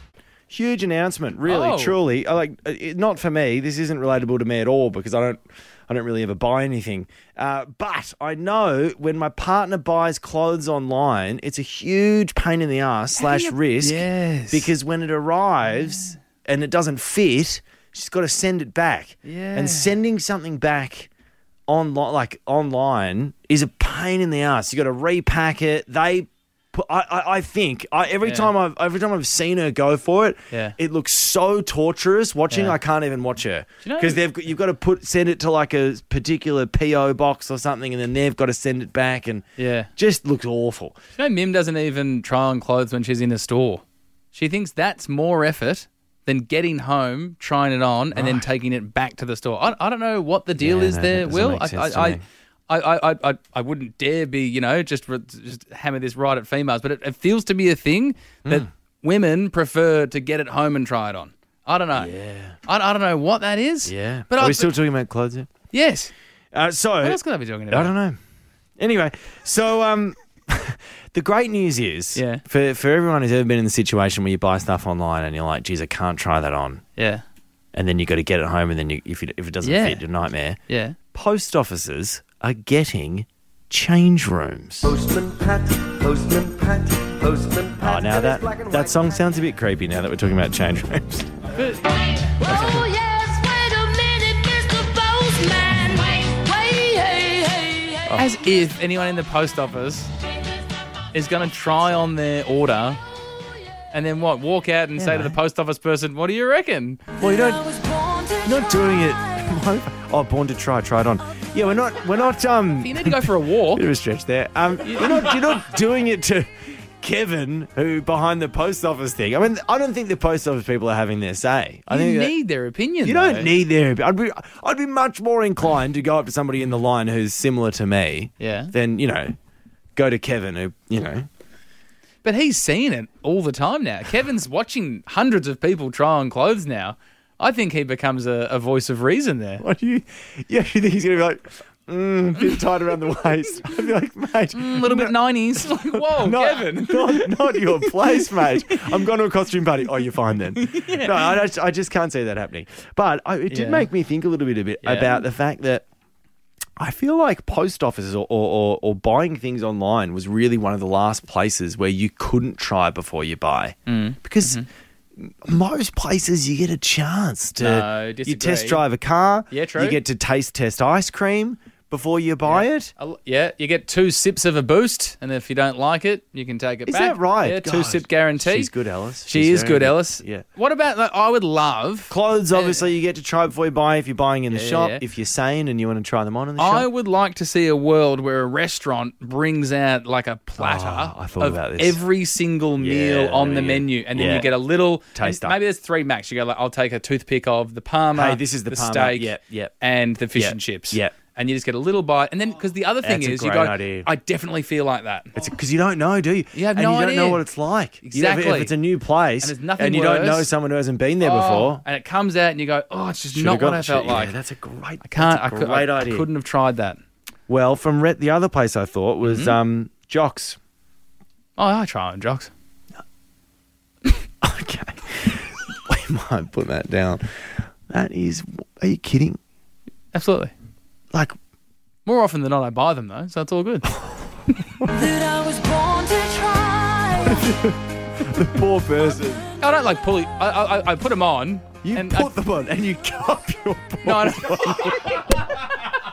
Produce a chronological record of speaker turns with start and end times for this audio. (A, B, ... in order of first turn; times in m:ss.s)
0:00.5-0:21.1 A
0:01.4-0:02.0 B
0:13.2-0:14.7 B
0:15.7-0:16.2 B
0:19.2-0:20.0 B
0:21.7-0:39.5 A
0:28.2-0:28.5 B
0:32.5-0:32.8 B
0:33.8-0:34.2 B
0:39.6-0:39.9 B
0:40.0-0:41.0 A
0:41.2-1:04.8 B
0:48.2-0:48.4 A
0:50.6-0:52.2 A
1:02.0-1:02.6 A
1:03.9-1:05.5 A
1:05.7-1:06.1 B
1:06.5-1:07.2 A
1:07.0-1:07.9 B
1:07.7-1:08.2 A
1:08.8-1:16.8 A
1:12.2-1:12.4 B
1:17.0-1:17.2 B
1:17.7-1:20.6 A
1:19.6-1:20.0 B
1:20.7-1:21.0 B
1:21.1-1:24.9 A
1:24.9-1:28.9 C
1:27.8-1:31.3 A
1:31.6-1:33.6 B
1:32.5-1:32.9 A
1:32.9-1:38.0 D
1:34.6-1:40.1 B
1:41.1-1:43.0 B
1:43.9-1:47.1 B
1:45.0-1:45.4 A
1:47.2-1:56.5 A
1:47.7-1:48.4 D
1:52.8-1:53.8 B
1:54.8-1:55.7 B
1:57.0-2:02.3 A
2:01.9-2:03.5 B
2:03.0-2:09.4 A
2:08.4-2:08.7 B
2:10.0-2:11.3 A
2:12.2-2:19.6 B
2:19.6-2:35.9 A
2:24.5-2:28.9 B
2:30.5-2:31.4 B
2:33.5-2:33.9 B
2:34.8-2:35.2 B
2:36.8-2:44.6 A
2:43.9-2:44.7 B
2:45.2-2:52.9 A
2:47.6-2:48.8 B
2:49.5-2:50.0 B
2:52.5-2:58.7 B
2:56.9-3:00.4 A
2:59.3-3:02.9 B
3:02.1-3:06.9 A
3:04.5-3:05.0 B
3:06.6-3:25.3 B
3:10.6-3:12.0 A
3:12.8-3:14.5 A
3:15.2-3:15.6 A
3:18.2-3:19.7 A
3:20.4-3:21.2 A
3:23.0-3:24.1 A
3:25.4-3:31.8 A
3:26.5-3:27.5 B
3:28.0-3:28.7 B
3:29.4-3:30.5 B
3:31.2-3:34.4 B
3:33.3-3:36.3 A
3:35.0-3:37.0 B
3:37.5-3:40.6 A
3:39.2-3:39.6 B
3:41.6-3:42.5 B
3:44.4-3:49.4 A
3:50.1-3:50.5 B
3:52.1-3:53.9 B
3:53.9-3:54.9 A
3:54.8-3:57.5 B
3:55.8-3:57.0 D
3:57.2-3:59.5 A
3:59.6-4:02.3 B
4:01.8-4:05.7 A
4:04.0-4:05.8 B